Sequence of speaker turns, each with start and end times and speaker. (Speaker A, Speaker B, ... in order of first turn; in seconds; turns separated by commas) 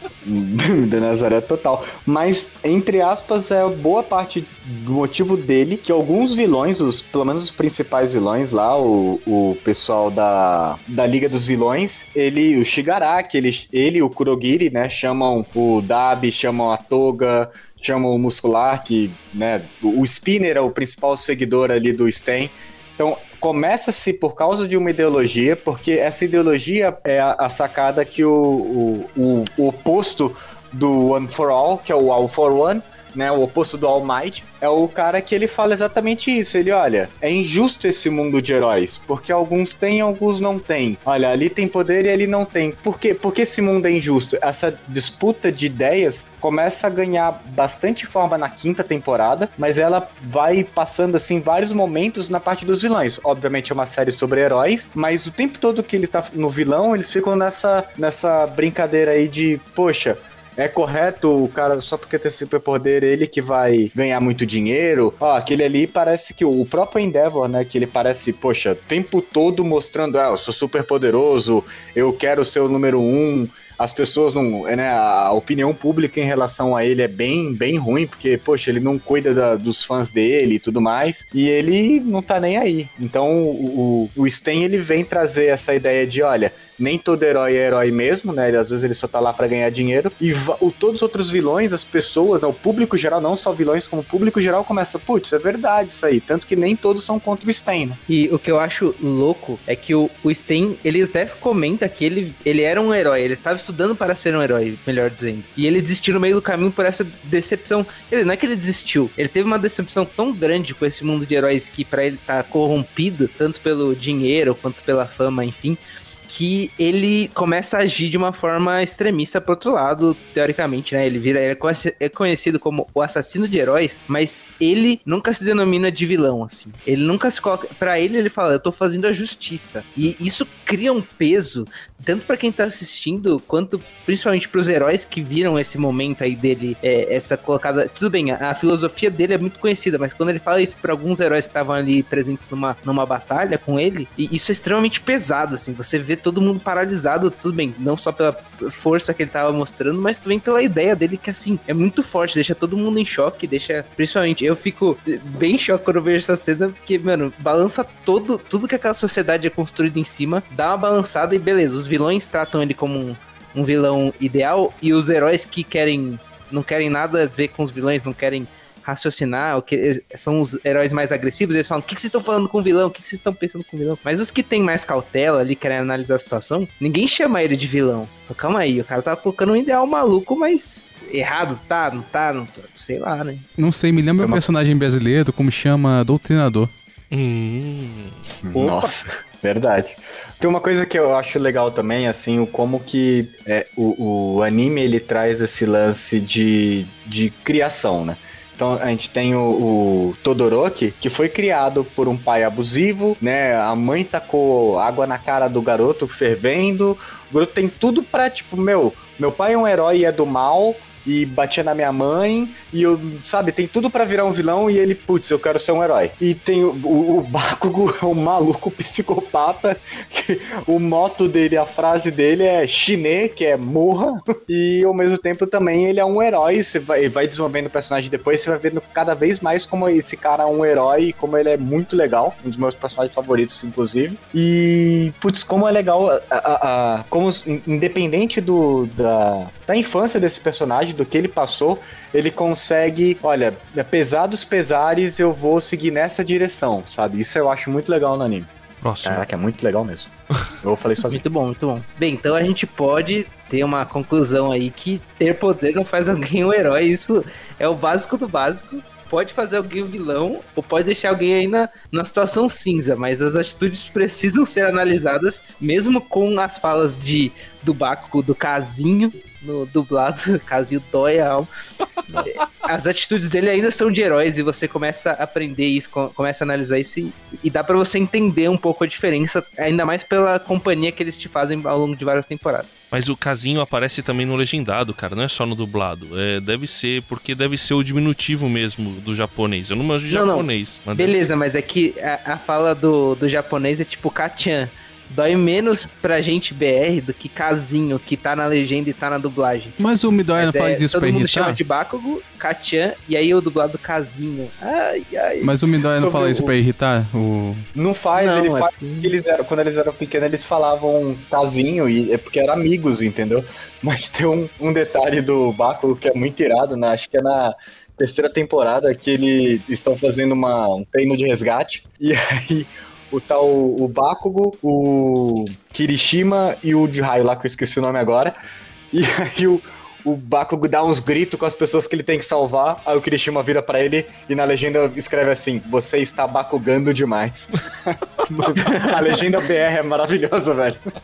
Speaker A: 0.2-98.0, Speaker B: 98.1-183.4, Speaker C: 183.6-186.7, Speaker D: 187.1-188.2, Speaker A: 188.4-248.5, Speaker B: 188.5-188.9, Speaker D: 248.8-249.3, Speaker A: 249.0-251.2, Speaker B: 251.1-271.5, Speaker B: 272.2-282.8, Speaker D: 282.9-291.1, Speaker B: 290.1-299.8, Speaker C: 299.8-301.6, Speaker B: 300.3-305.5, Speaker C: 305.4-307.7, Speaker A: 306.0-306.5, Speaker A: 307.7-328.3, Speaker B: 308.1-309.1, Speaker A: 328.9-340.8, Speaker D: 338.6-339.2